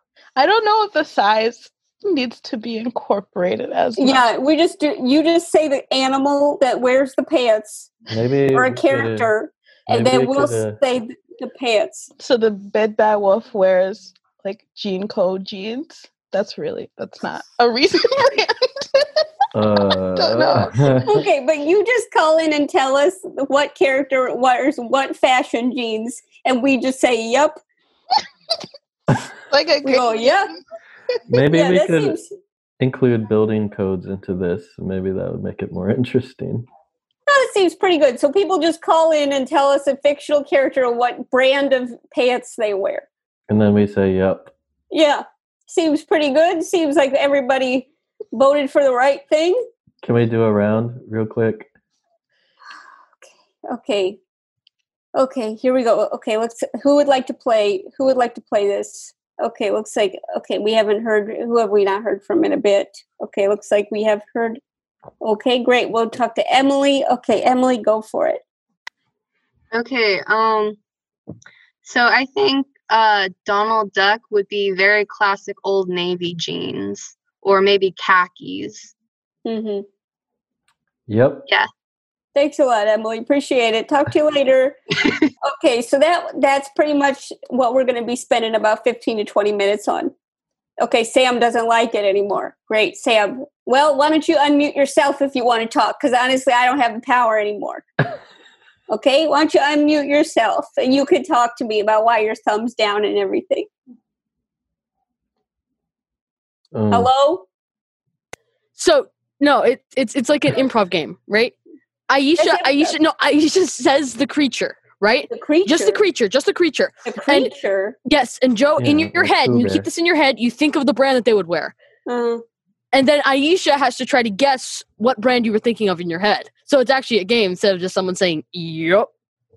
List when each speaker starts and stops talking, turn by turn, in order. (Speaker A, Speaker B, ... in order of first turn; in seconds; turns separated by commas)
Speaker A: 0.4-4.3, Speaker B: 4.0-7.9, Speaker C: 8.1-9.3, Speaker B: 8.5-12.1, Speaker C: 9.9-10.8, Speaker A: 12.2-19.1, Speaker C: 19.5-21.2, Speaker A: 20.2-20.9, Speaker B: 21.1-27.6, Speaker A: 29.5-30.4, Speaker B: 29.9-30.5, Speaker C: 31.3-32.2, Speaker B: 31.5-32.3, Speaker C: 32.8-36.7, Speaker B: 37.3-43.1, Speaker C: 43.5-44.5, Speaker B: 44.9-49.6, Speaker C: 50.0-51.7, Speaker B: 53.7-54.2, Speaker B: 55.2-64.6, Speaker B: 65.2-68.4, Speaker D: 69.7-70.8, Speaker D: 71.8-78.9, Speaker B: 79.5-79.8, Speaker C: 81.1-81.5, Speaker B: 82.3-84.8, Speaker B: 85.4-90.1, Speaker B: 90.8-97.9, Speaker B: 98.9-103.7, Speaker C: 106.7-107.1, Speaker B: 106.9-107.5, Speaker E: 108.8-111.5, Speaker E: 112.1-117.5, Speaker B: 112.4-112.9, Speaker B: 115.3-116.0, Speaker B: 117.0-118.0, Speaker E: 118.1-121.7, Speaker C: 118.8-119.9, Speaker B: 122.1-122.4, Speaker E: 122.9-129.1